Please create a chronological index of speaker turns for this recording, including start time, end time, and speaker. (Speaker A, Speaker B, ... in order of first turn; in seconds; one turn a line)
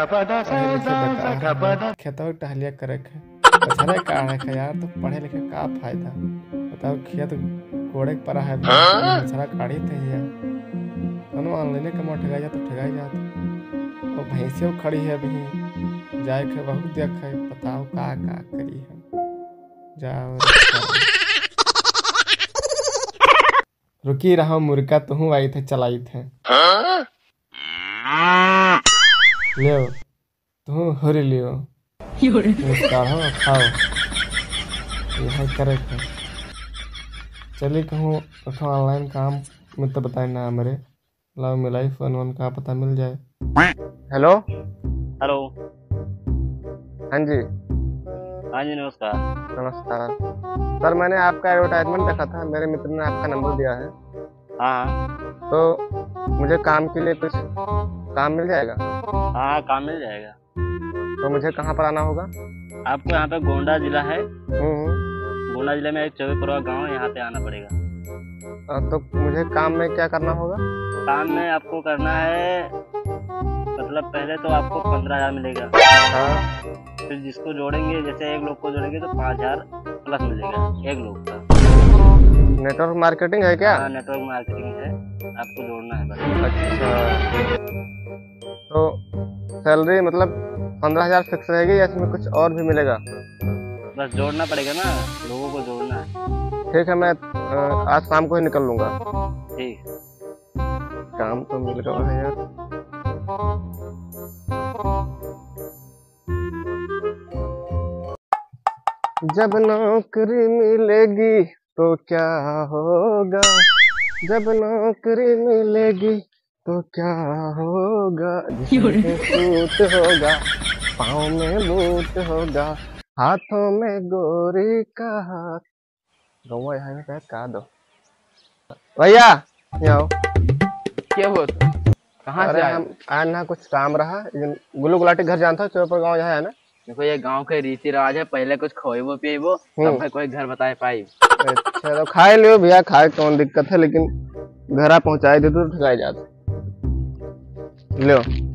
Speaker A: 0.4-6.2
Speaker A: 6.7-10.3
Speaker A: 11.3-13.2
Speaker A: 14.2-15.6
Speaker A: 16.2-19.0
Speaker A: 20.0-21.1
Speaker A: 24.0-26.3
Speaker A: 29.6-29.9
Speaker A: 30.6-31.6
Speaker A: 32.6-33.8
Speaker A: 35.2-36.0
Speaker A: 37.6-40.8
Speaker A: 41.4-43.2
Speaker A: 44.1-44.4
Speaker B: 45.2-45.5
Speaker A: 47.1-47.4
Speaker B: 48.5-49.2
Speaker A: 49.5-50.1
Speaker A: 50.8-53.9
Speaker B: 54.6-55.0
Speaker A: 56.4-57.4
Speaker A: 58.1-58.8
Speaker B: 59.4-60.4
Speaker A: 61.2-62.3
Speaker B: 62.9-64.2
Speaker A: 64.6-65.0
Speaker B: 65.5-67.7
Speaker A: 68.7-70.6
Speaker B: 71.1-72.7
Speaker B: 73.8-75.7
Speaker A: 76.1-76.4
Speaker B: 77.1-81.4
Speaker A: 82.6-83.8
Speaker B: 83.6-86.4
Speaker A: 86.4-87.2
Speaker A: 88.7-88.9
Speaker A: 89.6-93.0
Speaker B: 93.9-96.1
Speaker A: 96.7-98.9
Speaker B: 99.6-99.8
Speaker A: 101.2-102.3
Speaker A: 109.3-113.6
Speaker A: 114.2-120.4
Speaker A: 121.0-125.6
Speaker A: 126.5-127.7
Speaker A: 129.0-130.1
Speaker C: 131.1-131.7
Speaker C: 132.2-132.8
Speaker A: 132.4-136.5
Speaker C: 136.9-141.1
Speaker A: 141.4-144.1
Speaker A: 144.8-146.2